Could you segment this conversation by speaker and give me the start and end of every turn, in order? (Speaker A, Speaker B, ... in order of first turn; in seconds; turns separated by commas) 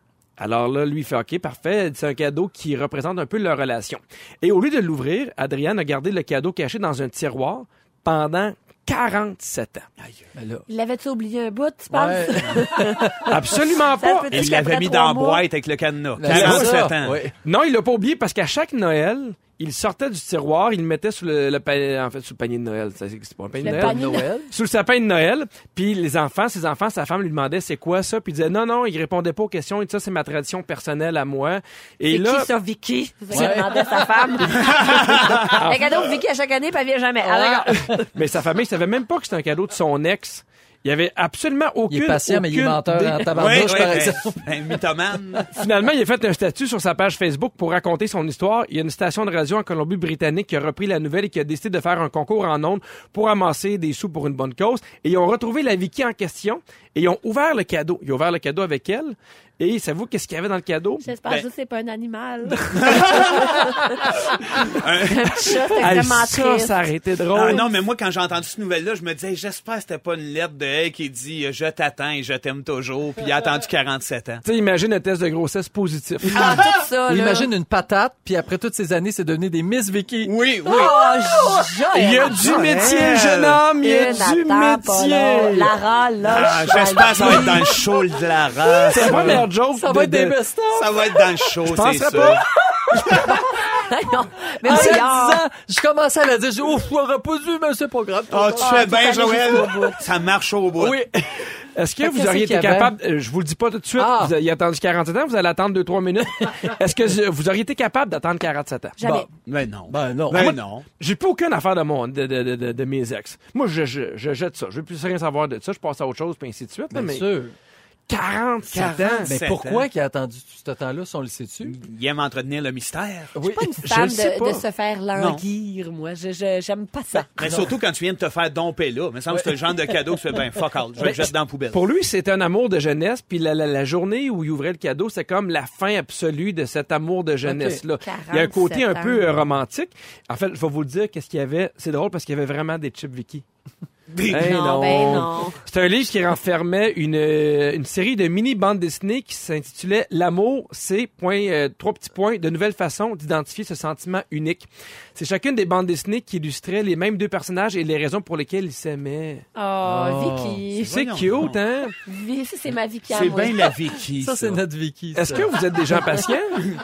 Speaker A: 0.4-9.8, Speaker B: 10.0-10.3, Speaker C: 10.3-10.7, Speaker D: 10.7-13.3, Speaker C: 11.9-13.6, Speaker A: 13.2-14.4, Speaker D: 14.0-15.4, Speaker B: 14.3-17.2, Speaker C: 16.2-17.3, Speaker A: 16.2-16.9, Speaker A: 17.4-32.5, Speaker D: 23.6-24.3, Speaker C: 23.6-24.5, Speaker D: 32.1-38.1, Speaker C: 33.3-34.1, Speaker B: 34.5-35.6, Speaker A: 35.4-35.8, Speaker C: 37.3-38.0, Speaker A: 38.1-43.9, Speaker C: 41.9-44.8, Speaker B: 43.4-45.5, Speaker A: 45.5-61.1, Speaker D: 61.0-64.1, Speaker B: 62.7-63.6, Speaker B: 64.7-65.8, Speaker D: 65.0-66.8, Speaker A: 65.8-67.7, Speaker B: 67.3-74.4, Speaker A: 74.4-76.6, Speaker D: 76.3-77.5, Speaker B: 76.4-76.7, Speaker C: 77.1-80.3, Speaker B: 80.2-81.0, Speaker D: 80.7-82.4, Speaker A: 82.0-85.7, Speaker B: 82.4-83.6, Speaker D: 83.8-87.7, Speaker B: 86.2-89.4, Speaker A: 87.2-87.6, Speaker A: 88.8-90.4, Speaker C: 88.8-91.4, Speaker B: 90.7-92.4, Speaker A: 91.6-92.5, Speaker D: 93.0-95.4, Speaker C: 94.6-99.1, Speaker B: 98.3-101.0, Speaker D: 98.6-100.1, Speaker C: 100.8-101.1, Speaker A: 101.8-109.0, Speaker C: 102.0-103.0, Speaker C: 104.0-104.3, Speaker D: 109.0-109.3, Speaker C: 109.0-109.3, Speaker B: 109.5-110.9, Speaker C: 109.9-110.6, Speaker A: 110.3-117.3, Speaker C: 116.9-117.5, Speaker A: 118.1-119.3, Speaker B: 118.7-119.9, Speaker C: 119.2-121.8, Speaker B: 121.7-123.3, Speaker C: 123.3-123.8, Speaker D: 123.5-127.3, Speaker A: 123.8-124.6, Speaker B: 125.2-125.4, Speaker B: 127.4-131.8, Speaker C: 127.4-127.7, Speaker C: 129.3-129.7, Speaker A: 131.0-143.4, Speaker C: 137.4-137.8, Speaker D: 138.0-139.3, Speaker B: 144.1-145.2, Speaker A: 144.3-159.4, Speaker D: 144.4-145.6, Speaker D: 159.6-160.9, Speaker C: 159.8-160.6, Speaker B: 160.8-161.6, Speaker A: 160.9-162.0, Speaker D: 162.1-163.7, Speaker B: 163.1-164.6, Speaker C: 164.2-166.3, Speaker A: 165.2-166.6